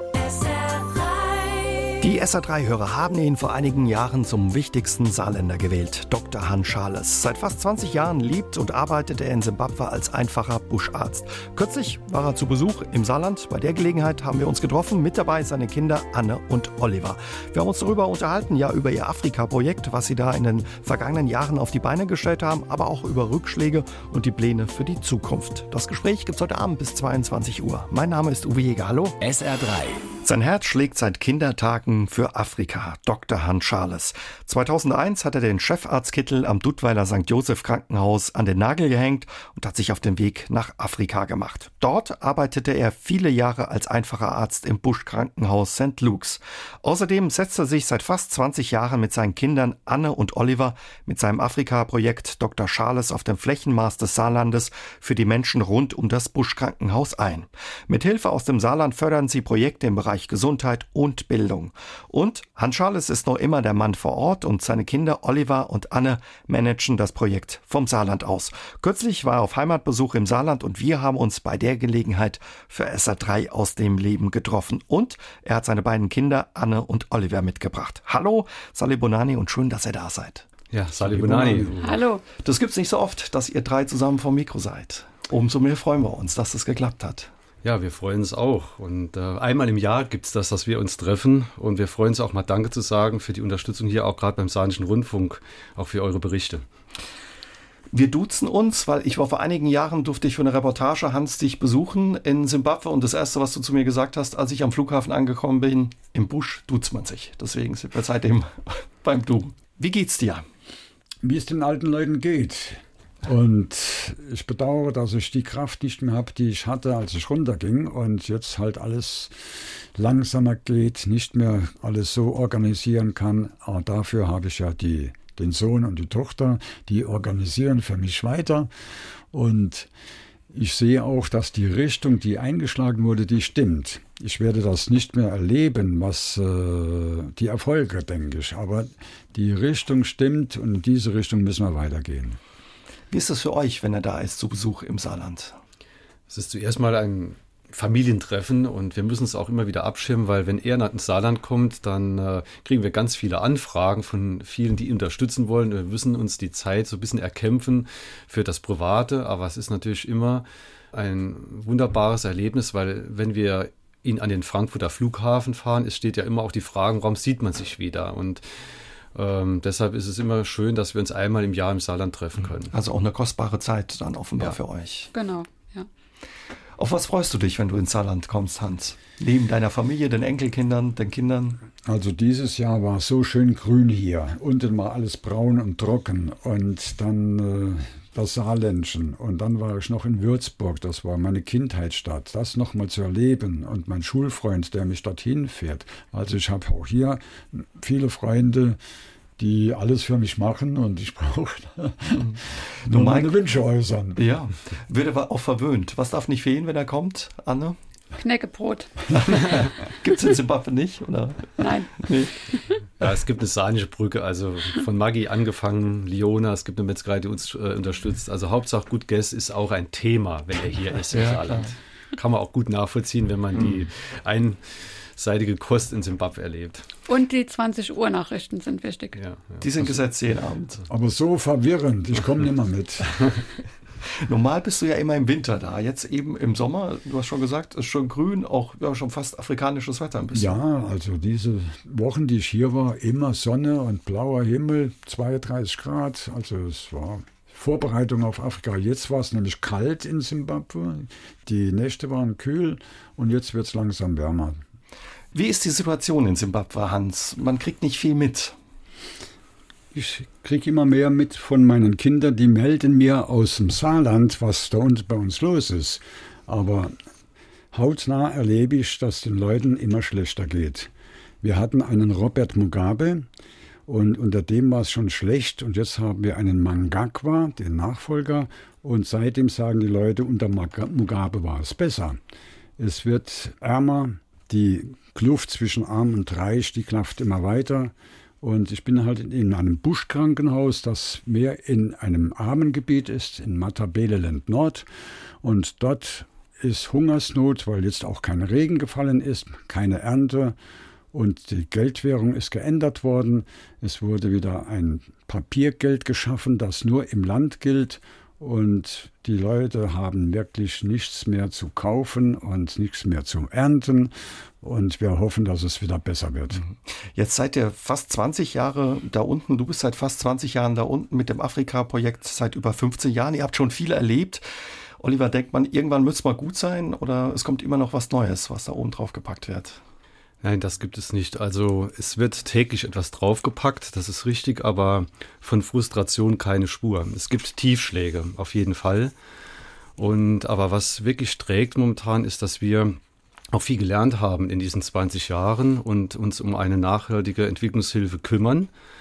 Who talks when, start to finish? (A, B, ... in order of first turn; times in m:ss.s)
0:00.2-0:02.0 A
0:02.0-0:29.2 B
0:29.2-0:30.1 A
0:30.2-1:20.4 B
1:20.7-1:22.0 C
1:21.0-1:21.7 D
1:21.8-1:22.2 E
1:22.4-1:27.3 B
1:27.6-1:36.6 C
1:37.9-1:50.5 B
1:51.2-2:08.7 D
2:09.3-2:09.9 D
2:10.5-2:22.4 D
2:23.1-2:25.6 B
2:26.3-2:48.4 C
2:49.1-2:52.7 C
2:52.7-2:55.1 B
2:55.1-2:55.9 E
2:56.8-3:01.6 B
3:01.8-3:18.8 D
3:19.4-3:24.2 D
3:22.2-3:23.3 B
3:24.2-3:27.8 B
3:28.2-3:29.3 E
3:29.2-3:32.3 B
3:31.6-3:32.6 E
3:33.0-3:46.9 C
3:41.1-3:41.7 B
3:47.1-3:49.2 E
3:49.2-3:50.0 C
3:49.6-3:50.8 B
3:50.9-3:53.3 D
3:54.2-4:00.6 B
4:00.3-4:14.6 D
4:15.3-4:18.5 B
4:19.9-4:26.9 D
4:27.7-4:30.9 D
4:31.4-4:33.3 D
4:33.9-4:42.2 D
4:42.8-4:54.9 D
4:55.4-5:00.6 D
5:01.1-5:16.6 D
5:16.6-5:24.4 B
5:25.0-5:29.8 B
5:30.4-5:39.1 C
5:40.0-5:43.0 C
5:43.5-5:48.7 C